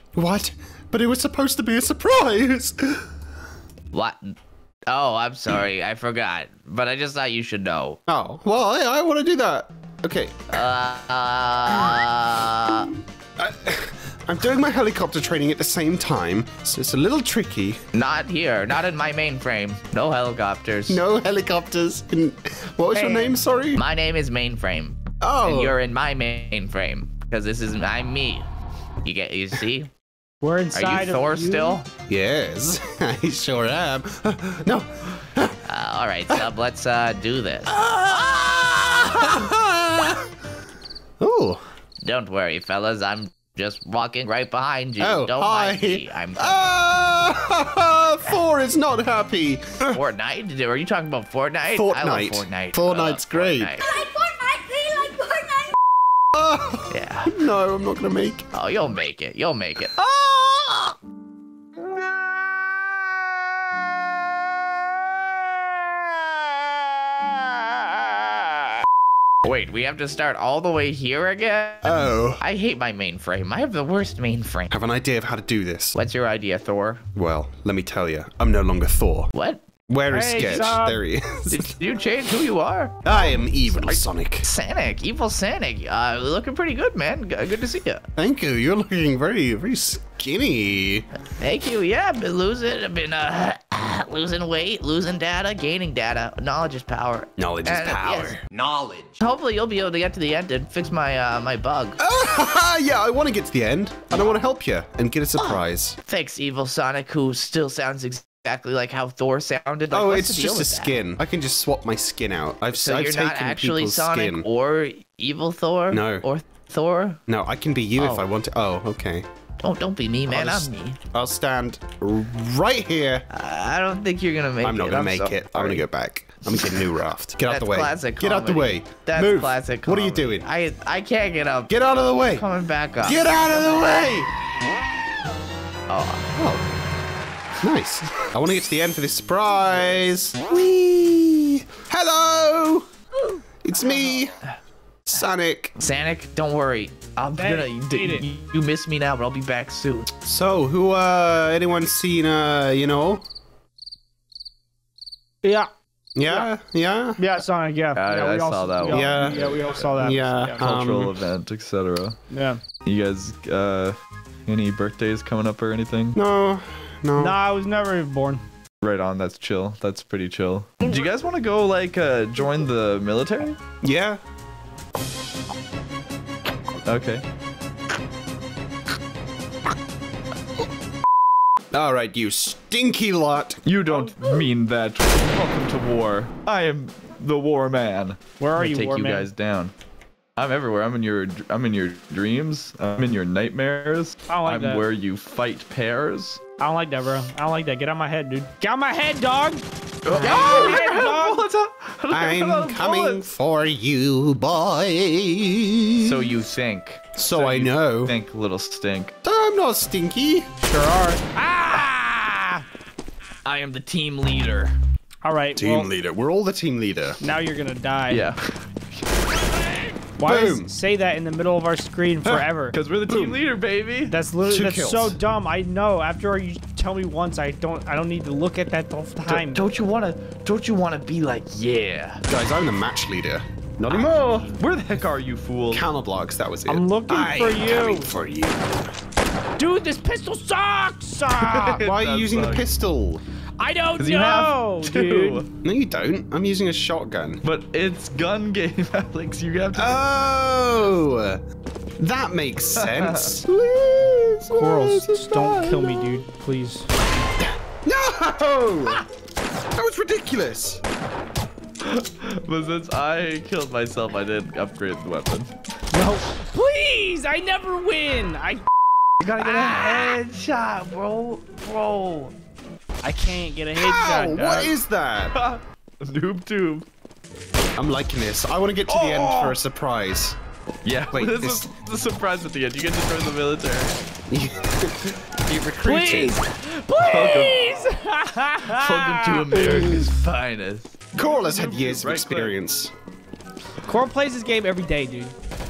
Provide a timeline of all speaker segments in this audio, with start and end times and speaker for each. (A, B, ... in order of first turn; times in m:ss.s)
0:00.2-0:03.0 A
0:03.9-0:04.3 B
0:04.9-0:08.0 B
0:08.1-0:10.5 A
0:10.5-0:12.9 B
0:11.7-0:12.0 A
0:13.4-0:17.8 A
0:17.9-0:21.0 B
0:20.9-0:23.8 A
0:22.9-0:23.3 C
0:23.8-0:28.5 B
0:25.2-0:25.8 A
0:29.0-0:29.9 B
0:30.4-0:31.8 C
0:30.7-0:31.8 B
0:32.1-0:35.6 A
0:35.7-0:39.4 B
0:37.7-0:40.3 A
0:41.2-0:41.6 A
0:42.0-0:46.6 B
0:45.0-0:50.0 A
0:49.9-0:54.0 B
0:51.7-0:53.8 A
0:56.3-0:58.5 A
0:56.9-0:57.4 B
0:58.5-0:59.9 B
1:00.0-1:00.9 A
1:09.4-1:14.7 B
1:11.8-1:12.4 A
1:14.7-1:16.0 A
1:15.9-1:17.0 B
1:17.1-1:19.3 A
1:19.3-1:19.6 B
1:19.9-1:21.7 A
1:20.1-1:21.0 C
1:21.5-1:28.0 B
1:23.0-1:24.5 A
1:28.2-1:31.1 A
1:31.4-1:38.4 B
1:37.4-1:38.4 A
1:39.2-1:42.0 B
1:42.0-1:46.0 A
1:45.4-1:51.0 B
1:49.9-1:54.5 A
1:52.7-1:57.2 B
1:55.9-1:56.2 A
1:57.3-1:59.2 A
1:58.0-1:58.3 B
1:59.6-2:01.0 B
2:00.3-2:03.2 A
2:03.3-2:05.8 B
2:04.6-2:10.4 A
2:07.5-2:11.7 B
2:11.7-2:12.4 A
2:12.3-2:13.4 B
2:13.0-2:14.3 A
2:15.9-2:16.3 B
2:16.3-2:16.7 A
2:17.6-2:22.8 A
2:23.6-2:24.4 A
2:25.0-2:25.8 A
2:25.8-2:30.1 B
2:27.4-2:28.2 C
2:30.2-2:33.2 A
2:35.4-2:35.7 C
2:36.2-2:37.2 A
2:37.2-2:40.6 C
2:37.9-2:42.2 D
2:38.8-2:41.2 A
2:42.3-2:42.6 C
2:42.8-2:46.2 D
2:46.1-2:47.4 A
2:47.2-2:48.4 C
2:48.8-2:53.6 D
2:53.8-2:54.2 A
2:56.8-2:57.2 D
3:01.7-3:03.6 A
3:03.6-3:09.7 D
3:08.4-3:09.3 C
3:10.4-3:16.4 D
3:14.3-3:14.8 C
3:16.6-3:21.4 C
3:20.0-3:23.2 D
3:20.2-3:20.8 A
3:22.1-3:26.3 A
3:26.0-3:29.1 D
3:27.2-3:28.2 A
3:29.2-3:30.5 A
3:30.6-3:32.6 C
3:33.5-3:34.8 D
3:35.2-3:35.9 C
3:35.6-3:37.2 A
3:37.2-3:38.3 C
3:38.1-3:38.4 D
3:40.2-3:42.8 C
3:40.2-3:40.7 A
3:42.7-3:44.2 D
3:43.1-3:43.4 A
3:44.1-3:49.6 C
3:44.4-3:45.2 A
3:49.2-3:52.2 D
3:52.3-3:54.5 A
3:54.5-3:55.8 D
3:55.7-3:58.9 A
3:56.7-3:58.1 C
3:59.6-4:01.8 C
4:01.3-4:02.7 D
4:01.8-4:03.2 A
4:03.6-4:05.5 C
4:04.0-4:05.5 D
4:05.6-4:07.4 A
4:07.4-4:10.0 D
4:09.7-4:11.4 A
4:12.0-4:16.2 A
4:12.8-4:13.4 D
4:14.5-4:16.9 C
4:17.4-4:19.0 A
4:19.8-4:20.8 A
4:21.8-4:25.5 D
4:25.9-4:28.7 C
4:29.2-4:30.2 C
4:29.2-4:30.1 D
4:29.3-4:32.3 B
4:33.0-4:34.7 C
4:33.8-4:35.3 A
4:35.3-4:36.8 D
4:37.8-4:40.4 A
4:38.9-4:39.6 D
4:40.8-4:43.9 D
4:41.1-4:41.7 A
4:44.3-4:46.3 A
4:45.8-4:49.9 C
4:45.8-4:46.1 D
4:47.0-4:47.8 D
4:48.7-4:52.6 D
4:49.2-4:50.0 B
4:51.1-4:52.9 A
4:53.8-4:55.3 C